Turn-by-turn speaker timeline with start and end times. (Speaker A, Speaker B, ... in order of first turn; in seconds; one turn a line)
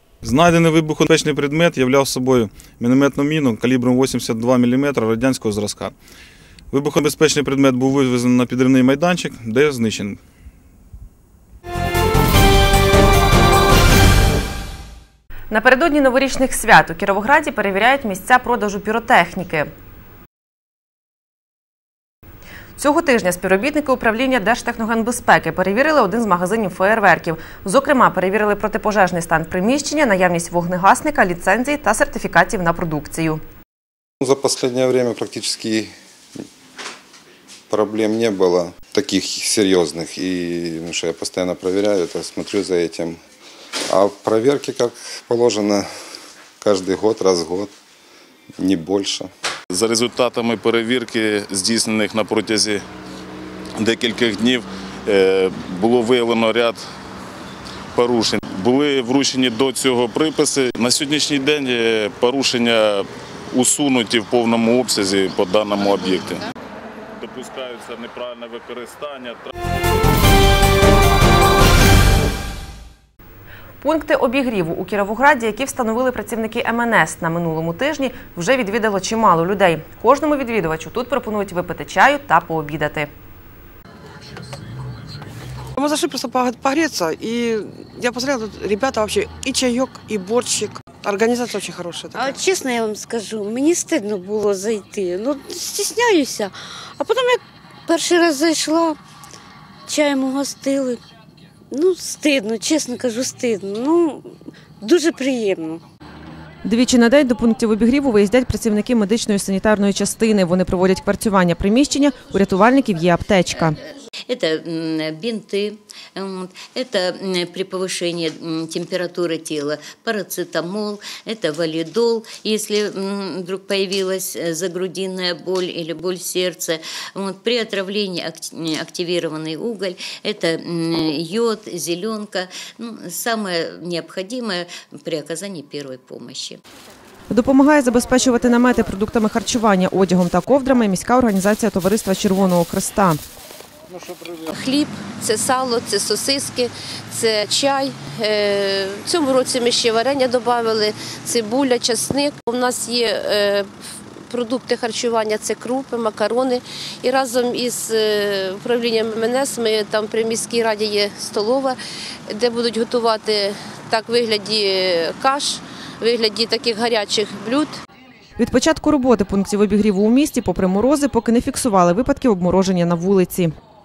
Speaker A: 0.2-5.9
Speaker A: 6.7-10.2
Speaker B: 15.5-19.7
Speaker B: 22.8-33.4
Speaker C: 34.2-35.9
Speaker C: 37.7-43.1
Speaker C: 43.9-45.9
Speaker C: 46.6-47.7
Speaker C: 48.6-49.3
Speaker D: 49.7-52.8
Speaker D: 53.8-56.8
Speaker D: 57.9-66.4
Speaker D: 67.2-69.5
Speaker B: 73.8-83.1
Speaker E: 85.8-92.3
Speaker F: 92.1-99.0
Speaker F: 99.9-101.0
Speaker F: 101.7-104.3
Speaker F: 104.8-105.8
Speaker B: 106.6-113.8
Speaker G: 114.3-136.6
Speaker B: 137.3-143.2
Speaker H: 144.5-153.7
Speaker H: 154.3-161.8
Speaker H: 162.3-167.8
Speaker B: 168.4-173.5